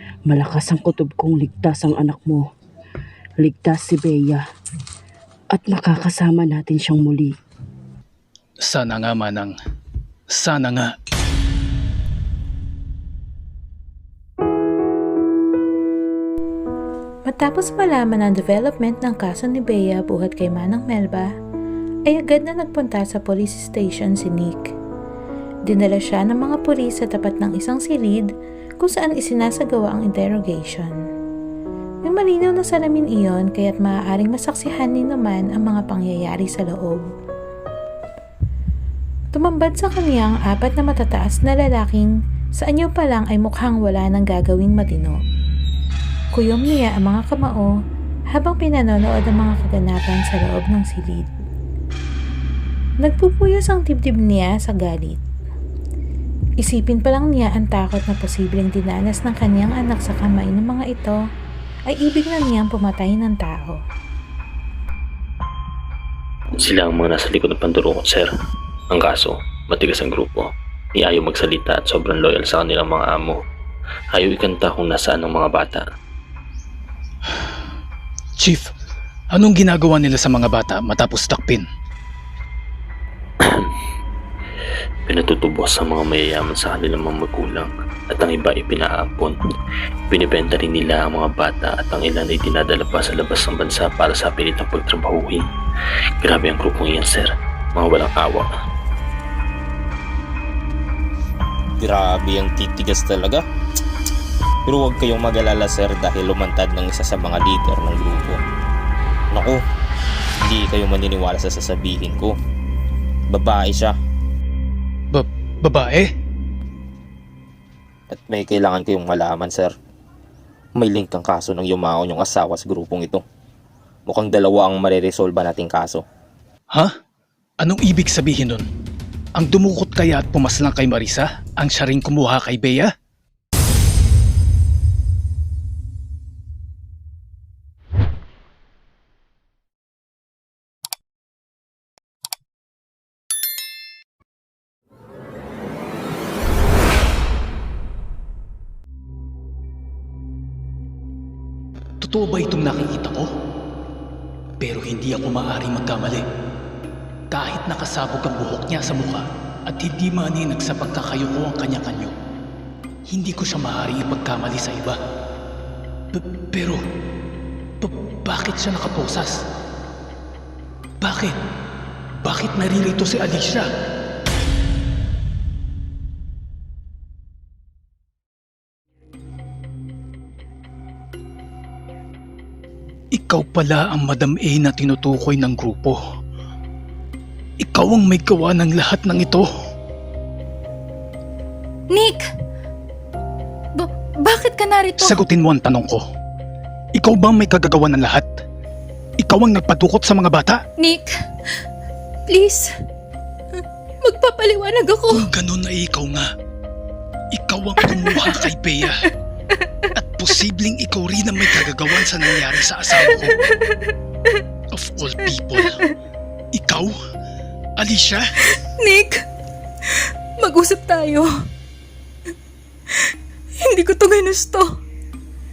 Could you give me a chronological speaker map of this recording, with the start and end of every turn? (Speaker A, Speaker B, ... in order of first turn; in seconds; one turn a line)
Speaker A: 0.3-2.4
Speaker A: 3.4-4.4
Speaker A: 5.5-7.3
Speaker B: 8.6-9.5
Speaker B: 10.3-10.9
Speaker C: 17.3-21.3
Speaker C: 22.1-24.7
Speaker C: 25.7-28.3
Speaker C: 28.8-30.9
Speaker C: 32.0-37.0
Speaker C: 39.3-45.2
Speaker C: 46.3-47.7
Speaker C: 48.3-51.3
Speaker C: 53.0-55.2
Speaker C: 56.6-61.2
Speaker C: 61.9-63.8
Speaker D: 66.6-68.3
Speaker D: 68.9-73.4
Speaker D: 74.1-75.9
Speaker B: 78.4-78.7
Speaker B: 79.3-81.6
Speaker D: 83.4-83.7
Speaker D: 85.1-89.4
Speaker D: 90.1-95.5
Speaker D: 96.2-98.5
Speaker E: 101.8-103.4
Speaker E: 104.7-108.4
Speaker E: 109.3-109.6
Speaker E: 110.4-112.4
Speaker E: 113.3-114.0
Speaker B: 115.1-116.1
Speaker E: 118.1-119.7
Speaker E: 120.8-123.2
Speaker E: 124.1-126.0
Speaker B: 127.6-128.7
Speaker B: 129.4-132.9
Speaker B: 152.0-153.3
Speaker B: 154.6-156.2
Speaker B: 157.3-162.1
Speaker B: 163.1-165.0
Speaker B: 166.1-166.8
Speaker B: 167.8-169.4
Speaker B: 171.0-171.3
Speaker B: 172.2-173.7
Speaker B: 183.1-186.0
Speaker B: 187.6-189.5
Speaker F: 191.9-192.2
Speaker F: 193.8-195.2
Speaker B: 195.0-196.0
Speaker B: 196.9-198.4
Speaker B: 199.2-200.6
Speaker F: 200.8-201.1
Speaker F: 202.3-202.7
Speaker F: 204.0-205.3
Speaker B: 205.1-206.3
Speaker B: 207.3-209.0
Speaker B: 210.0-213.4
Speaker B: 214.7-215.8
Speaker B: 216.5-216.9
Speaker B: 217.8-218.3
Speaker F: 218.8-219.2
Speaker F: 220.4-221.3
Speaker F: 223.7-224.7